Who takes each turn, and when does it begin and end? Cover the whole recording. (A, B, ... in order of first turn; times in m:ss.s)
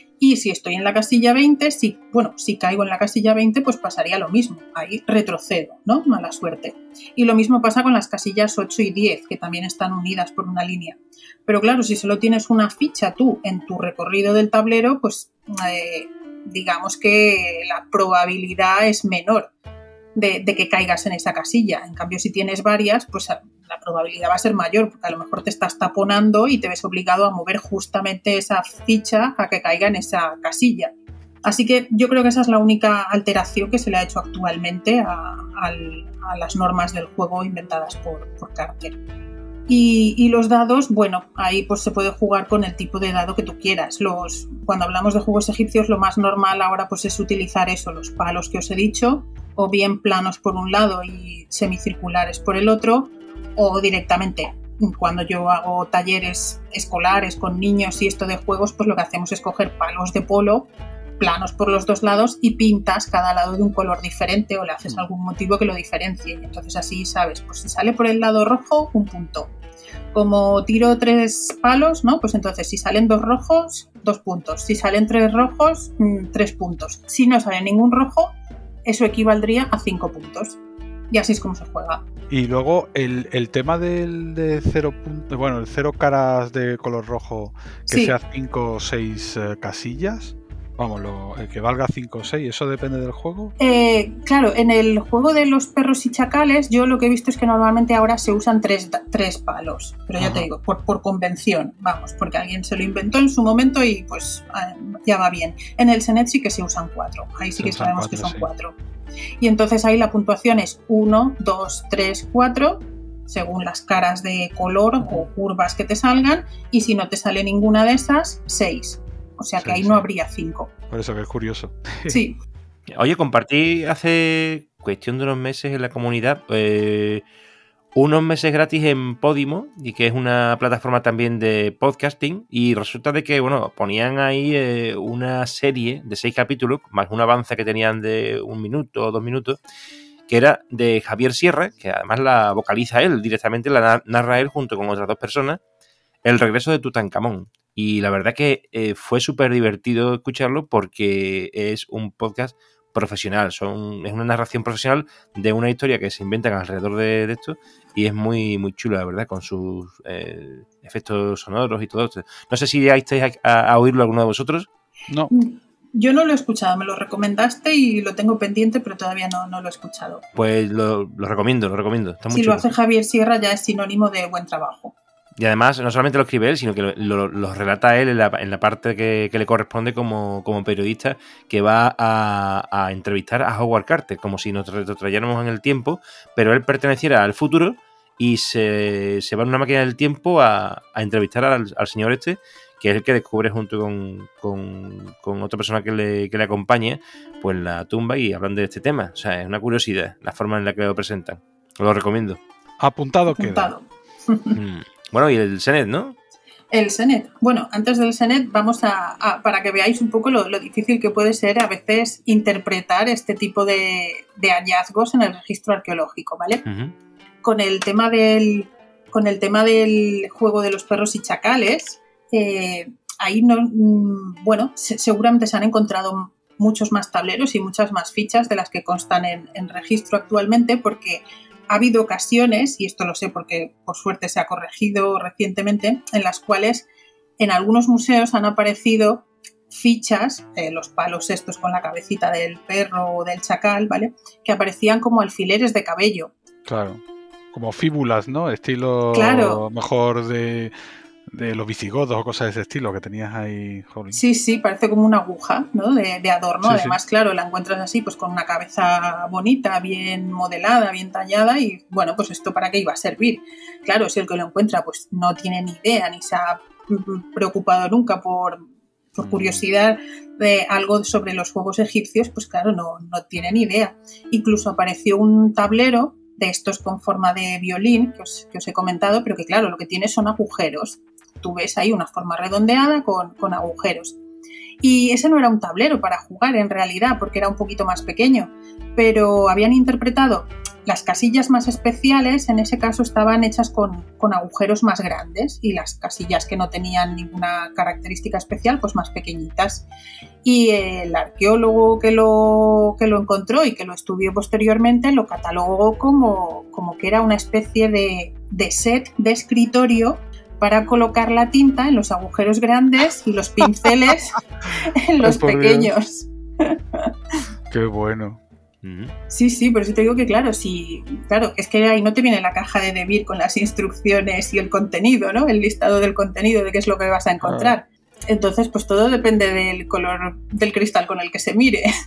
0:00.2-0:19.5 A
0:20.2-0:30.9 A
0:31.4-0:39.0 A
0:39.7-1:09.5 A
1:10.1-1:18.3 A
1:18.8-1:20.6 A
1:21.1-1:22.0 A
1:22.3-1:33.5 B
1:27.9-1:28.2 A
1:33.6-1:48.8 A
1:40.2-1:40.5 B
1:47.6-1:48.5 B
1:49.4-2:00.7 A
1:59.6-2:00.0 B
2:00.9-2:02.2 B
2:02.1-2:02.4 A
2:02.9-2:07.2 C
2:08.0-2:19.6 C
2:20.3-2:25.6 C
2:26.2-2:44.7 C
2:45.3-2:50.2 A
2:50.4-2:52.7 C
2:52.3-2:55.0 A
2:55.4-3:22.4 C
3:22.8-3:23.7 B
3:23.3-3:24.6 A
3:24.5-3:26.2 C
3:26.7-3:36.6 A
3:36.7-3:36.9 C
3:37.4-3:56.9 A
3:57.4-4:06.3 A
4:06.7-4:07.0 B
4:07.5-4:10.7 B
4:09.1-4:09.6 A
4:11.3-4:14.2 B
4:14.1-4:44.2 A
4:16.6-4:17.0 B
4:44.8-4:59.9 A
5:00.4-5:17.1 A
5:15.2-5:15.9 B
5:17.7-5:18.4 B
5:18.8-5:19.1 C
5:19.3-5:31.9 A
5:27.4-5:27.7 B